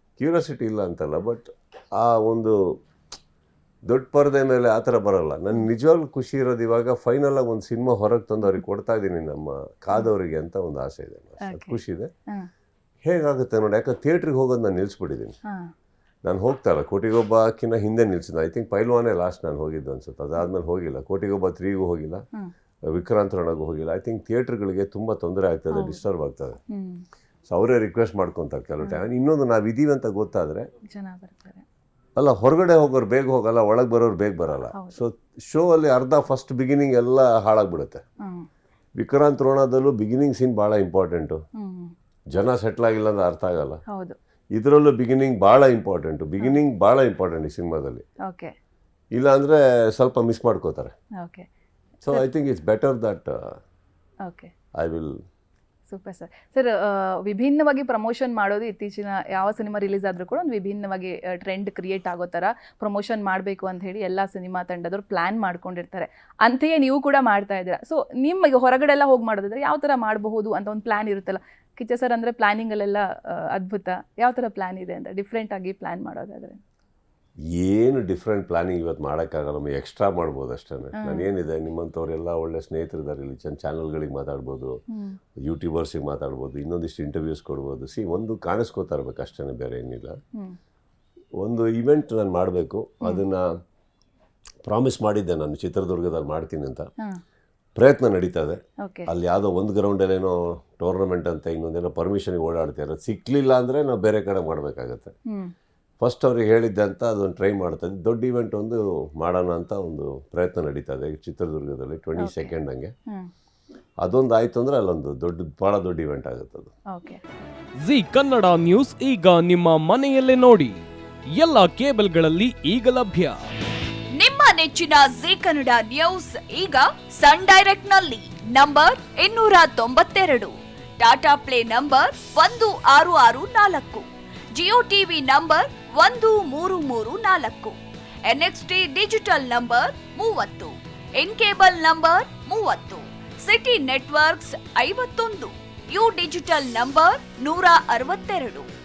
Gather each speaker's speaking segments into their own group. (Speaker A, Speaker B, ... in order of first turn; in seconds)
Speaker A: 0.2-2.5, 3.9-12.1, 13.0-15.3, 16.2-22.2, 22.9-26.6, 27.5-30.7, 32.1-38.0, 39.0-41.4, 42.3-43.8, 44.5-48.0, 49.1-50.9, 52.0-53.6, 54.7-55.1, 77.5-84.8, 85.4-90.1, 91.4-93.5, 94.6-96.9, 97.8-105.1, 106.0-112.9, 114.0-116.7
Speaker B: 11.4-12.5, 15.4-15.7, 25.7-26.0, 26.7-27.0, 30.9-31.6, 34.7-35.0, 38.2-38.5, 41.6-41.9, 43.9-44.1, 48.2-48.5, 51.2-51.5, 54.2-54.5, 55.9-76.6, 81.0-81.3, 84.9-85.2, 98.8-99.1, 112.2-112.5, 116.9-117.2
Speaker C: 117.8-120.8, 121.3-123.4
Speaker D: 124.1-148.7